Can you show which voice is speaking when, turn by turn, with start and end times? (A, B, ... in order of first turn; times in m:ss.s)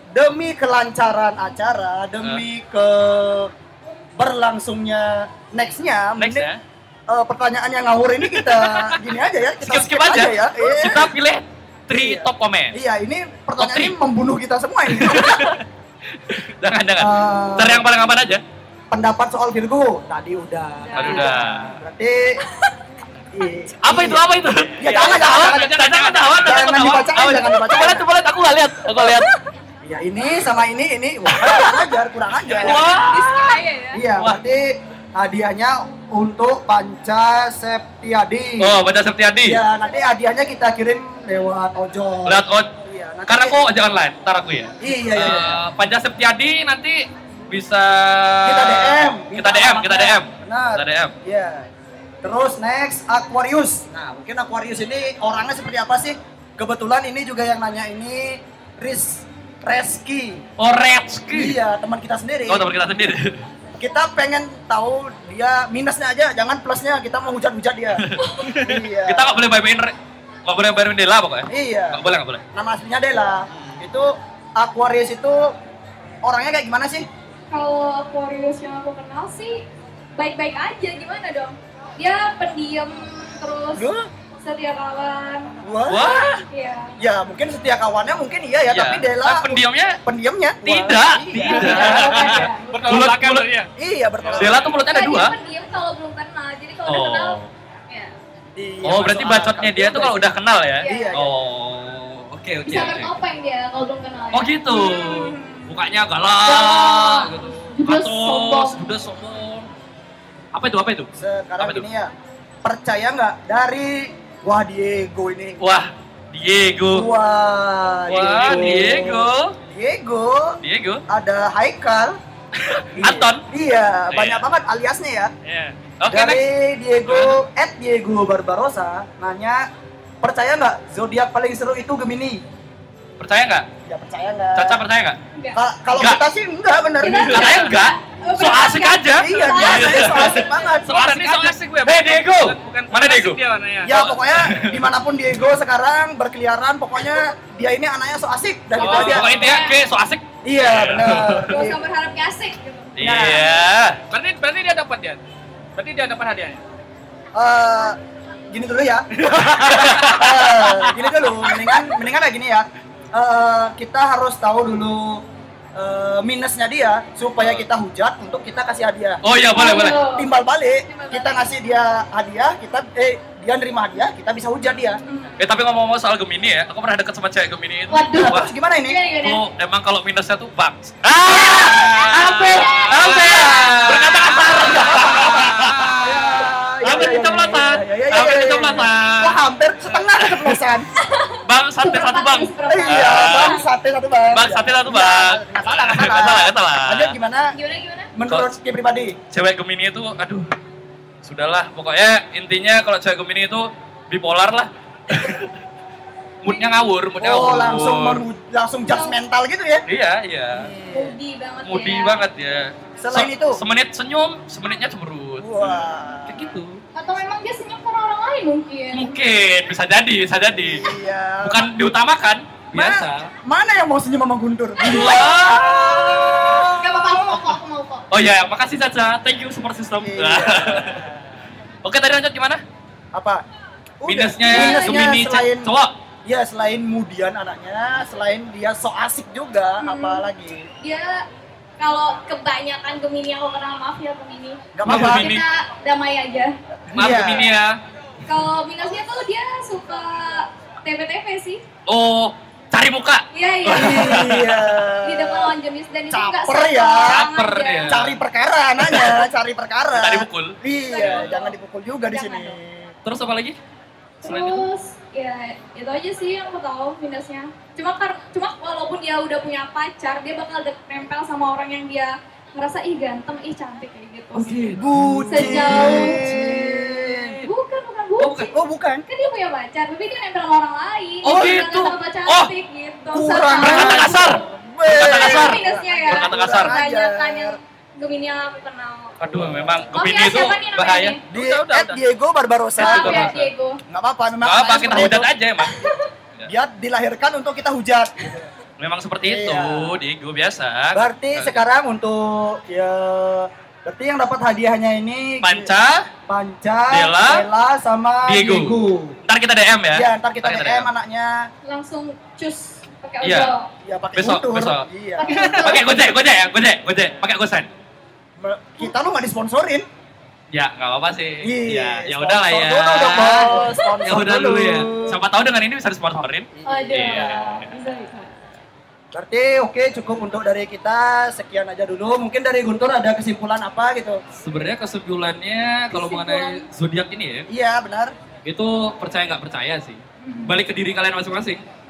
0:00.1-0:03.5 A
0:04.2-0:06.5 A
0:06.2-0:06.6 B
0:07.1-0:11.1 A
0:08.4-0:09.0 B
0:09.6-0:12.8 B
0:11.9-0:15.6 A
0:13.6-0:13.9 B
0:14.9-0:15.6 B
0:16.2-0:18.4 B
0:17.0-0:17.8 A
0:18.9-0:22.4 A
0:20.8-0:21.4 C
0:21.0-0:21.8 B
0:23.3-0:24.2 A
0:23.8-0:29.3 B
0:24.8-0:25.7 A
0:24.8-0:26.7 D
0:26.4-0:28.1 A
0:29.0-0:29.3 C
0:29.8-0:32.9 A
0:31.4-0:31.8 B
0:32.5-0:33.6 B
0:33.0-0:34.0 C
0:33.9-0:38.8 A
0:38.6-0:39.6 B
0:39.4-0:43.6 A
0:42.2-0:42.7 B
0:43.3-0:47.0 B
0:44.8-0:45.6 A
0:47.5-0:51.1 B
0:48.4-0:51.7 A
0:52.2-1:00.4 A
1:00.6-1:01.6 B
1:01.3-1:02.7 A
1:02.5-1:03.4 B
1:03.8-1:08.0 A
1:08.0-1:09.9 B
1:08.2-1:08.5 C
1:08.6-1:09.4 A
1:10.4-1:12.4 B
1:11.5-1:12.0 A
1:12.5-1:15.5 A
1:16.2-1:17.1 A
1:17.5-1:19.6 C
1:20.2-1:23.9 C
1:23.7-1:24.1 A
1:24.4-1:26.9 C
1:25.6-1:26.0 A
1:25.9-1:26.4 B
1:27.0-1:32.0 A
1:28.7-1:30.0 B
1:30.6-1:33.5 B
1:31.4-1:33.7 D
1:31.4-1:32.8 C
1:33.8-1:34.7 A
1:34.2-1:34.5 D
1:34.3-1:35.3 B
1:34.8-1:37.4 C
1:36.8-1:37.5 B
1:38.6-1:41.4 A
1:38.8-1:43.1 B
1:40.8-1:41.2 C
1:42.6-1:45.8 C
1:44.3-1:49.7 B
1:46.4-1:48.8 C
1:50.5-1:51.1 B
1:51.2-1:52.1 A
1:51.6-1:51.8 B
1:52.6-1:55.6 A
1:55.6-1:57.1 B
1:56.9-2:00.6 A
1:58.1-1:59.5 B
1:58.2-1:58.8 D
2:00.6-2:01.0 B
2:01.1-2:02.2 A
2:02.5-2:03.4 B
2:02.9-2:05.3 A
2:04.1-2:04.4 B
2:05.5-2:05.7 D
2:06.0-2:06.4 B
2:06.1-2:09.6 A
2:07.0-2:07.4 B
2:10.2-2:12.4 A
2:13.2-2:13.6 B
2:13.8-2:14.8 A
2:14.6-2:15.2 B
2:15.3-2:15.6 C
2:15.6-2:17.7 A
2:15.9-2:16.2 B
2:17.0-2:20.5 C
2:17.1-2:24.8 B
2:19.1-2:20.9 A
2:20.8-2:24.0 D
2:23.8-2:29.4 A
2:28.7-2:29.8 C
2:28.8-2:31.6 B
2:28.8-2:29.1 D
2:30.4-2:31.8 A
2:31.5-2:32.9 C
2:33.0-2:34.0 B
2:33.0-2:33.5 D
2:34.1-2:35.2 D
2:35.8-2:36.6 D
2:37.3-2:38.0 A
2:38.5-2:39.0 A
2:39.2-2:40.2 D
2:39.7-2:41.0 B
2:39.9-2:49.2 A
2:49.2-2:50.0 B
2:49.5-2:50.3 C
2:50.0-2:55.0 A
2:50.9-2:51.5 C
2:55.0-2:55.4 C
2:55.4-2:58.5 B
2:57.9-2:59.4 C
2:58.1-2:59.0 A
2:59.2-3:09.4 B
3:01.3-3:04.6 C
3:01.4-3:01.9 A
3:02.6-3:10.9 A
3:09.9-3:10.6 B
3:11.0-3:13.6 C
3:11.4-3:13.6 B
3:12.7-3:17.5 A
3:14.3-3:17.2 B
3:17.5-3:18.1 C
3:18.1-3:19.2 A
3:19.3-3:20.5 B
3:21.2-3:25.5 B
3:26.4-3:28.2 B
3:27.2-3:29.8 A
3:28.9-3:29.2 C
3:29.9-3:30.7 B
3:30.5-3:31.2 A
3:30.9-3:32.2 C
3:31.6-3:36.8 B
3:33.0-3:33.6 A
3:35.4-3:36.4 A
3:36.9-3:39.2 C
3:38.9-3:40.8 B
3:40.6-3:41.7 A
3:41.4-3:43.3 B
3:42.7-3:47.6 A
3:44.8-3:46.6 B
3:46.8-3:48.0 C
3:48.1-3:51.0 B
3:50.0-3:51.1 A
3:51.8-3:52.6 B
3:53.1-3:53.4 A
3:54.0-3:55.7 A
3:54.1-3:55.9 B
3:54.4-3:55.2 C
3:56.2-4:00.7 A
3:59.8-4:00.2 C
4:00.8-4:01.2 C
4:01.8-4:06.6 C
4:04.7-4:05.3 A
4:04.8-4:05.4 B
4:06.9-4:07.5 A
4:06.9-4:07.8 B
4:08.3-4:11.6 C
4:11.9-4:14.8 B
4:13.3-4:14.3 C
4:13.7-4:15.5 A
4:15.0-4:17.9 C
4:16.1-4:17.2 A
4:17.0-4:18.2 B
4:17.9-4:22.9 A
4:18.8-4:19.2 B
4:19.9-4:21.2 B
4:20.9-4:21.5 C
4:22.0-4:22.6 C
4:23.0-4:23.6 B
4:24.2-4:24.6 B
4:24.2-4:34.7 C
4:34.3-4:37.5 B
4:34.8-4:37.4 A
4:35.3-4:36.2 C
4:37.4-4:38.5 C
4:38.2-4:38.5 B
4:38.5-4:39.0 A
4:39.1-4:44.3 C
4:41.2-4:42.5 B
4:41.3-4:41.6 A
4:43.1-4:47.6 A
4:43.6-4:46.7 B
4:44.9-4:49.2 C
4:49.2-4:51.2 B
4:49.3-4:49.8 A
4:49.9-4:51.2 C
4:51.3-4:52.0 D
4:51.3-4:53.4 A
4:52.8-4:53.5 B
4:52.8-4:53.8 C
4:53.9-4:55.3 A
4:54.4-4:55.8 B
4:55.6-4:56.0 C
4:56.5-4:58.5 A
4:58.8-5:01.6 B
4:59.2-5:00.0 A
5:00.9-5:05.7 A
5:05.4-5:06.1 B
5:06.3-5:09.2 A
5:06.9-5:07.4 B
5:08.2-5:10.9 B
5:09.9-5:11.4 A
5:11.6-5:13.7 C
5:13.2-5:13.5 B
5:13.8-5:15.5 A
5:14.2-5:17.7 B
5:15.2-5:16.0 C
5:18.4-5:19.8 A
5:20.5-5:27.7 B
5:21.4-5:25.2 A
5:26.5-5:27.2 A
5:26.6-5:28.4 C
5:29.1-5:34.2 A
5:34.4-5:37.5 B
5:35.9-5:36.6 C
5:37.5-5:38.1 A
5:38.4-5:41.6 B
5:40.2-5:40.6 C